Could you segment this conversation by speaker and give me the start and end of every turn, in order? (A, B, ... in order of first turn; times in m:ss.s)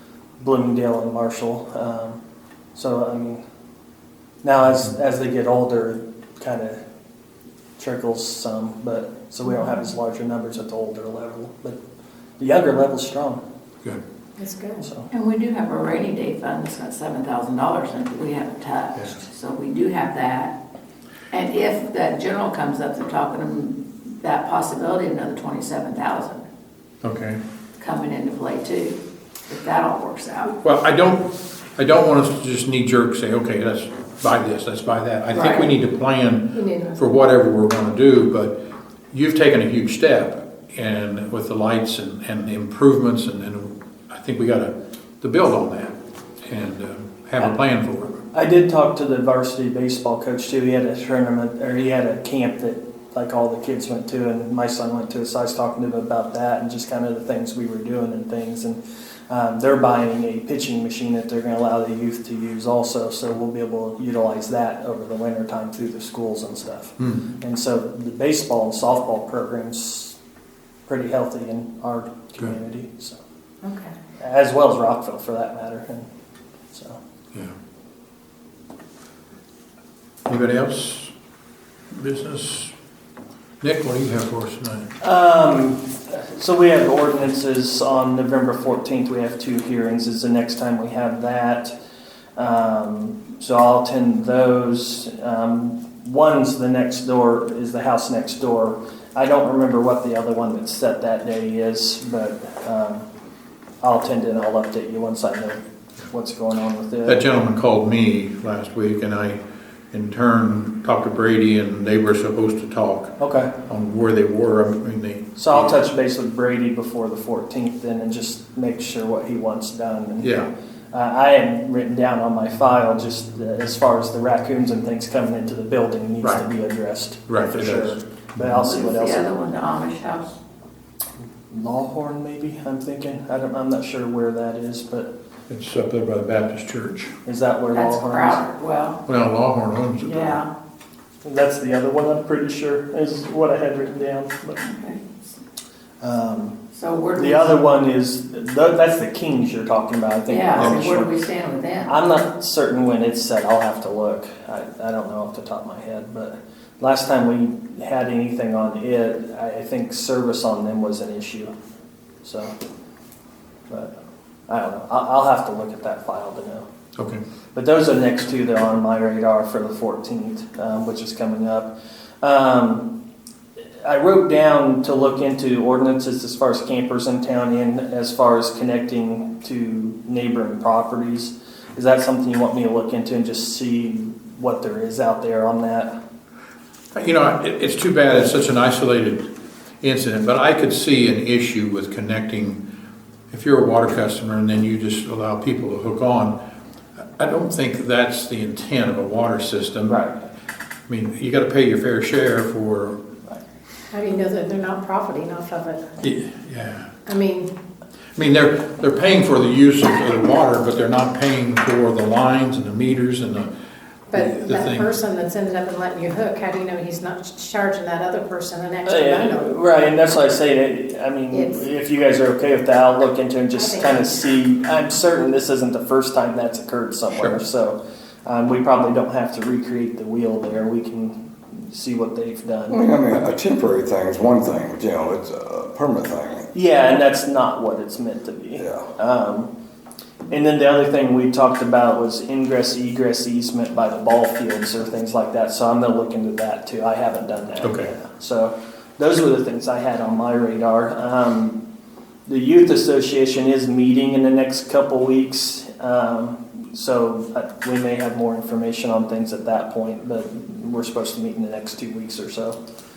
0:00.4-0:02.2 A
0:02.8-0:03.4 A
0:04.4-0:06.8 A
0:07.8-0:11.8 A
0:12.4-0:13.4 A
0:14.4-0:14.9 B
0:14.8-0:15.1 A
0:15.1-0:20.6 C
0:21.3-0:26.4 C
0:27.0-0:27.4 D
0:27.8-0:29.0 C
0:29.5-0:30.5 C
0:30.6-0:31.2 D
0:31.8-0:38.6 D
0:35.3-0:35.7 C
0:36.6-0:37.0 B
0:39.1-0:45.9 D
0:46.5-0:48.2 D
0:48.3-1:10.2 A
1:10.9-1:13.2 A
1:13.6-1:13.9 C
1:14.2-1:16.1 A
1:16.7-1:17.0 A
1:20.3-1:21.1 D
1:21.9-1:22.7 D
1:23.6-1:24.9 D
1:25.0-1:31.7 A
1:32.4-1:43.1 A
1:43.8-1:47.2 A
1:47.0-1:49.4 D
1:49.9-1:53.1 D
1:53.2-1:53.5 A
1:53.7-1:55.8 D
1:55.4-2:00.3 A
2:00.2-2:00.5 D
2:00.9-2:09.3 A
2:07.3-2:08.0 D
2:08.6-2:10.4 C
2:11.5-2:15.1 A
2:15.5-2:17.1 D
2:17.2-2:18.4 A
2:17.7-2:19.1 C
2:19.1-2:20.4 D
2:20.0-2:20.5 C
2:21.2-2:24.6 A
2:24.6-2:25.0 C
2:26.0-2:26.6 A
2:26.7-2:27.5 C
2:27.2-2:31.2 A
2:30.3-2:31.9 C
2:31.9-2:41.5 A
2:42.2-2:42.5 A
2:43.7-2:44.0 A
2:44.5-2:46.7 A
2:47.0-2:47.2 D
2:47.6-2:52.9 A
2:53.8-3:05.9 A
3:06.9-3:09.2 D
3:09.8-3:12.6 D
3:13.3-3:16.4 D
3:17.0-3:20.0 D
3:19.9-3:20.2 A
3:20.9-3:23.0 D
3:23.9-3:25.8 B
3:26.0-3:26.9 D
3:27.1-3:27.5 B
3:28.2-3:33.5 D
3:34.1-3:39.6 B
3:34.1-3:34.9 D
3:38.9-3:52.8 A
3:41.3-3:41.6 B
3:43.5-3:44.0 B
3:52.7-3:56.5 E
3:56.5-3:59.5 A
3:58.6-3:58.9 E
4:00.3-4:11.6 A
4:07.6-4:07.9 D
4:12.3-4:22.6 A